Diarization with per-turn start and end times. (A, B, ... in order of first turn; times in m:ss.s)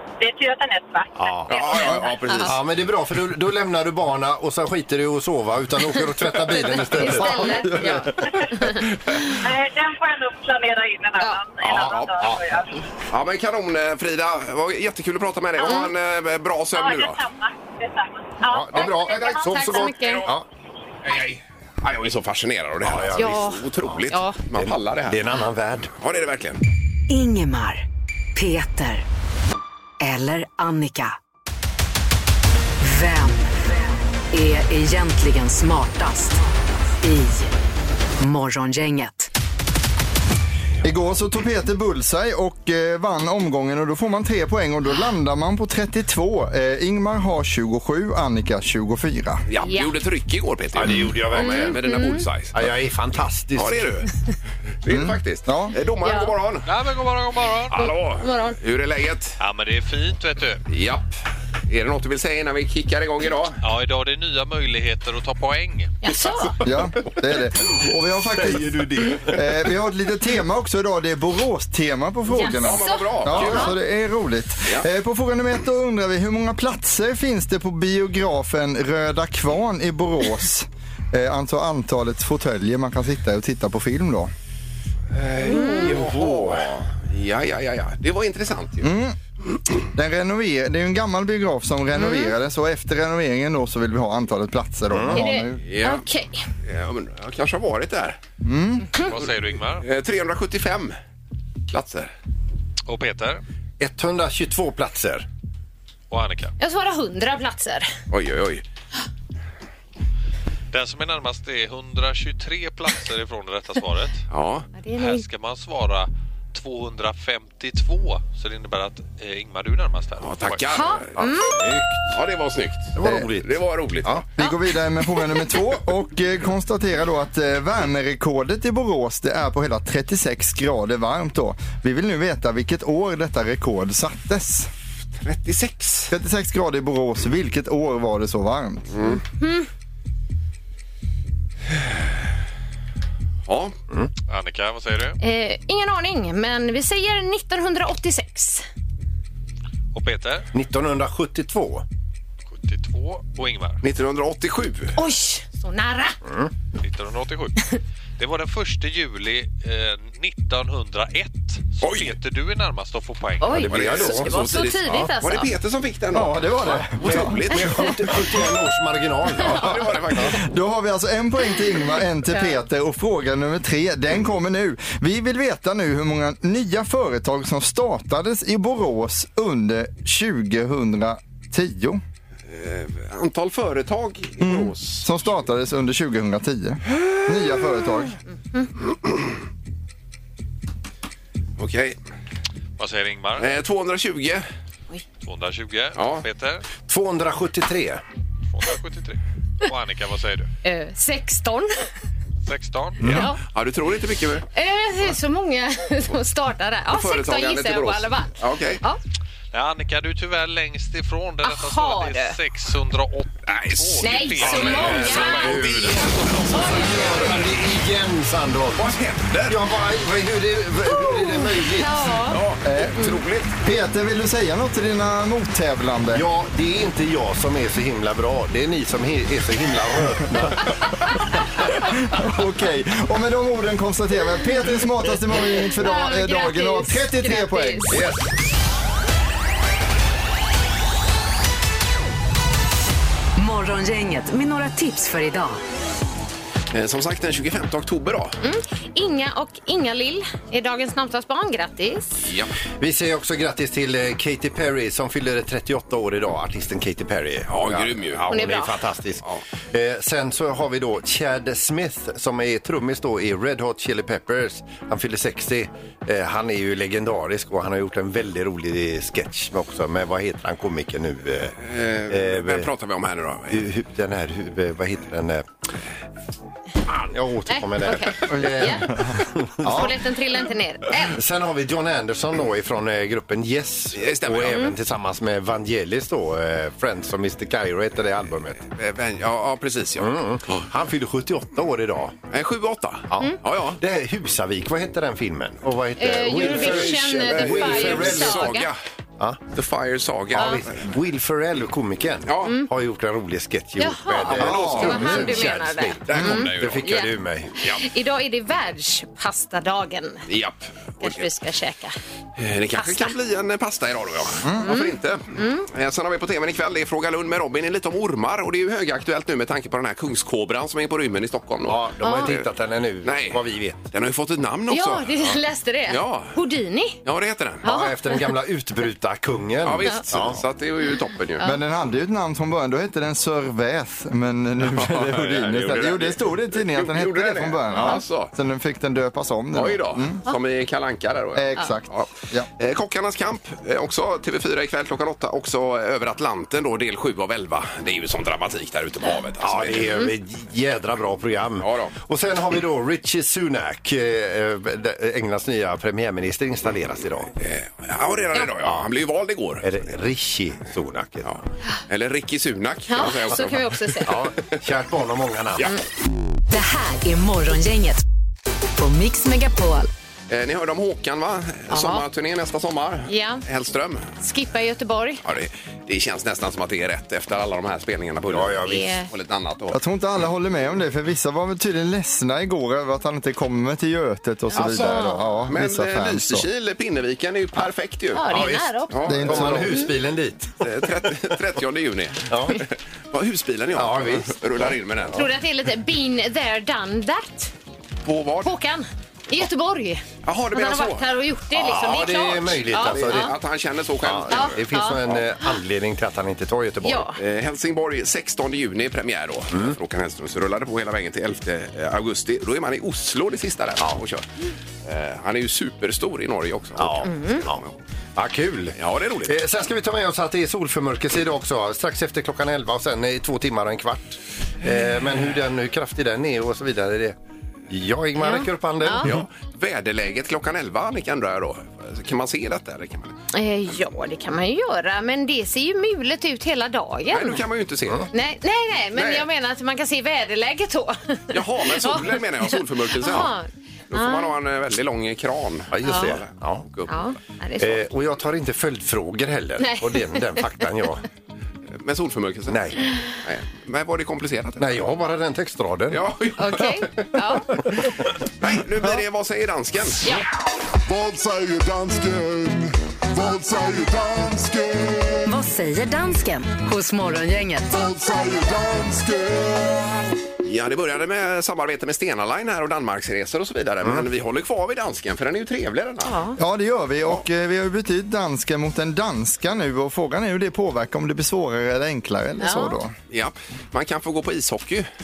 0:00.2-0:02.0 A
0:01.2-0:01.8 B
0:01.5-0:02.6 C
0:01.8-0:02.5 D
0:02.4-0:07.9 B
0:06.5-0:08.9 D
0:06.5-0:07.0 C
0:07.6-0:08.4 E
0:09.3-0:12.7 A
0:11.6-0:12.6 B
0:13.1-0:17.2 C
0:15.6-0:15.8 A
0:15.6-0:15.9 D
0:16.7-0:19.5 A
0:18.4-0:20.5 B
0:19.1-0:20.3 D
0:19.7-0:20.3 C
0:21.0-0:25.2 C
0:22.8-0:24.0 B
0:23.2-0:24.4 D
0:24.5-0:25.9 B
0:26.0-0:26.6 C
0:27.1-0:27.8 F
0:28.4-0:29.0 F
0:30.0-0:31.1 F
0:32.8-0:33.7 F
0:34.3-0:36.4 F
0:37.0-0:37.5 F
0:38.2-0:39.3 F
0:40.8-0:49.4 E
0:49.5-0:52.6 C
0:49.6-0:49.9 D
0:50.7-0:51.8 B
0:51.3-0:52.2 D
0:52.5-0:53.8 B
0:53.6-0:54.1 C
0:54.8-0:56.7 C
0:54.9-0:55.7 E
0:56.0-0:56.3 D
0:56.6-0:57.9 G
0:57.7-0:59.4 C
0:57.8-0:58.6 D
0:59.4-1:00.6 G
1:00.7-1:01.1 C
1:01.7-1:03.6 C
1:03.6-1:06.0 G
1:06.0-1:06.6 D
1:06.6-1:24.3 E
1:08.4-1:09.5 B
1:12.3-1:13.8 D
1:12.6-1:13.8 C
1:25.1-1:28.9 C
1:25.4-1:25.9 D
1:25.4-1:26.7 B
1:28.8-1:29.2 E
1:29.9-1:35.6 E
1:31.9-1:32.3 D
1:34.9-1:35.2 B
1:35.1-1:36.4 D
1:35.6-1:36.0 C
1:36.6-1:38.2 C
1:38.4-1:38.9 E
1:39.0-1:39.8 G
1:39.8-1:41.0 C
1:41.7-1:42.1 C
1:42.9-1:43.4 G
1:43.8-1:45.3 B
1:46.1-1:46.5 G
1:46.6-1:47.9 D
1:48.1-1:48.6 C
1:50.7-1:54.2 G
1:54.3-1:54.6 C
1:54.8-1:55.2 D
1:55.0-2:00.8 G
2:00.2-2:01.1 C
2:00.7-2:01.6 D
2:01.2-2:02.0 B
2:02.1-2:04.2 C
2:02.9-2:04.2 B
2:04.4-2:14.7 E
2:04.4-2:05.4 D
2:15.2-2:16.1 C
2:16.1-2:19.0 E
2:18.9-2:19.2 C
2:19.1-2:19.7 D
2:23.5-2:23.7 C
2:24.3-2:25.2 G
2:25.2-2:28.6 D
2:29.9-2:30.5 G
2:30.5-2:31.8 B
2:32.5-2:33.8 G
2:33.8-2:35.0 C
2:35.0-2:36.2 D
2:36.2-2:36.5 B
2:36.8-2:37.6 G
2:38.2-2:43.7 G
2:41.8-2:42.1 C
2:43.4-2:45.5 D
2:43.5-2:45.1 B
2:43.6-2:48.3 C
2:46.1-2:47.4 E
2:46.7-2:50.3 B
2:49.4-2:50.4 C
2:50.2-3:02.0 E
2:52.2-2:52.6 D
3:02.5-3:05.1 C
3:04.4-3:08.2 E
3:11.6-3:12.0 C
3:12.8-3:13.6 G
3:13.4-3:14.4 C
3:15.2-3:16.6 G
3:16.0-3:16.2 C
3:16.9-3:18.0 B
3:18.5-3:20.5 G
3:20.6-3:21.7 D
3:22.4-3:23.2 G
3:23.0-3:24.4 C
3:23.1-3:23.4 D
3:24.5-3:29.0 D
3:26.9-3:28.8 C
3:29.5-3:37.1 G
3:31.4-3:32.4 D
3:33.5-3:37.4 C
3:34.0-3:35.6 D
3:34.6-3:36.0 B
3:36.5-3:37.3 D
3:36.7-3:38.9 B
3:38.7-3:39.6 C
3:39.5-3:42.2 B
3:40.8-3:42.4 D
3:42.3-3:43.6 C
3:42.6-3:43.1 E
3:43.0-3:43.2 D
3:43.6-3:46.2 E
3:46.1-3:50.7 B
3:52.0-3:58.0 E
3:55.8-3:58.0 D
3:57.9-3:58.2 B
4:03.4-4:05.6 F
4:06.7-4:08.4 C
4:08.4-4:12.2 D
4:12.2-4:12.5 C
4:12.8-4:31.6 B
4:17.5-4:18.3 C
4:18.3-4:18.8 D
4:31.6-4:33.6 C
4:32.1-4:32.7 B
4:33.5-4:35.4 B
4:36.9-4:39.9 B
4:37.5-4:41.1 D
4:38.3-4:38.6 E
4:41.0-4:48.6 B
4:43.9-4:44.7 C
4:48.6-4:50.6 C
4:50.0-4:52.2 B
4:52.3-4:53.8 C
4:53.1-4:58.6 B
4:56.0-4:58.7 D
4:56.3-4:58.8 C
4:59.5-5:00.8 C
5:00.3-5:07.5 B
5:02.3-5:02.6 C
5:03.8-5:10.2 D
5:04.3-5:05.3 C
5:04.4-5:05.2 E
5:06.1-5:06.9 C
5:10.3-5:11.3 C
5:11.0-5:11.9 D
5:12.4-5:22.4 C
5:12.8-5:13.1 D
5:14.4-5:14.7 E
5:14.6-5:15.6 D
5:21.6-5:23.9 B
5:22.0-5:22.3 D
5:23.0-5:25.4 C
5:24.7-5:27.0 D
5:25.9-5:26.4 C
5:27.0-5:27.6 C
5:27.6-5:28.2 D
5:27.6-5:30.4 B
5:29.6-5:31.5 C
5:31.4-5:40.2 E
5:34.7-5:38.3 C
5:39.5-5:50.0 C
5:41.4-5:42.5 E
5:49.4-5:57.3 B
5:51.6-5:51.9 C
5:57.4-5:59.7 C
5:58.6-5:58.9 B
5:59.6-6:01.4 B
6:01.2-6:04.2 C
6:02.9-6:04.1 D
6:04.1-6:05.7 B
6:06.5-6:08.0 F
6:08.8-6:09.9 F
6:10.3-6:14.1 C
6:11.7-6:12.0 D
6:13.1-6:13.4 D
6:14.2-6:15.2 D
6:15.2-6:19.8 C
6:18.3-6:18.9 B
6:18.6-6:19.1 D
6:19.7-6:26.5 E
6:24.5-6:25.3 D
6:24.6-6:29.7 C
6:28.1-6:29.9 D
6:28.3-6:31.1 B
6:29.1-6:29.7 E
6:30.6-6:35.3 C
6:32.2-6:32.6 B
6:33.7-6:34.7 B
6:35.1-6:37.5 D
6:38.0-6:38.5 C
6:38.4-6:43.3 D
6:40.2-6:41.1 C
6:41.5-6:43.3 B
6:42.7-6:45.2 C
6:44.0-6:47.1 B
6:44.3-6:45.0 D
6:46.8-6:47.2 D
6:47.2-6:54.2 C
6:54.8-6:57.7 C
6:56.8-6:57.6 B
6:57.0-6:57.4 D
6:58.2-7:07.2 B
6:58.8-6:59.4 C
7:07.7-7:09.2 B
7:08.2-7:09.1 D
7:09.0-7:13.1 C
7:13.3-7:17.4 D
7:17.1-7:18.1 C
7:18.1-7:24.3 D
7:18.9-7:19.3 C
7:21.3-7:23.3 C
7:23.9-7:26.9 C
7:25.7-7:26.7 B
7:25.8-7:26.2 D
7:26.9-7:27.8 D
7:27.6-7:31.0 B
7:29.6-7:30.5 D
7:31.8-7:34.7 C
7:32.5-7:32.8 B
7:34.6-7:36.0 B
7:35.9-7:37.1 C
7:36.4-7:37.5 D
7:38.4-7:40.0 C
7:40.9-7:45.3 H
7:45.2-7:47.7 F
7:47.7-7:50.1 H
7:50.4-7:56.2 C
7:56.0-7:56.4 D
7:56.4-8:02.9 E
8:02.4-8:02.8 D
8:03.1-8:04.9 C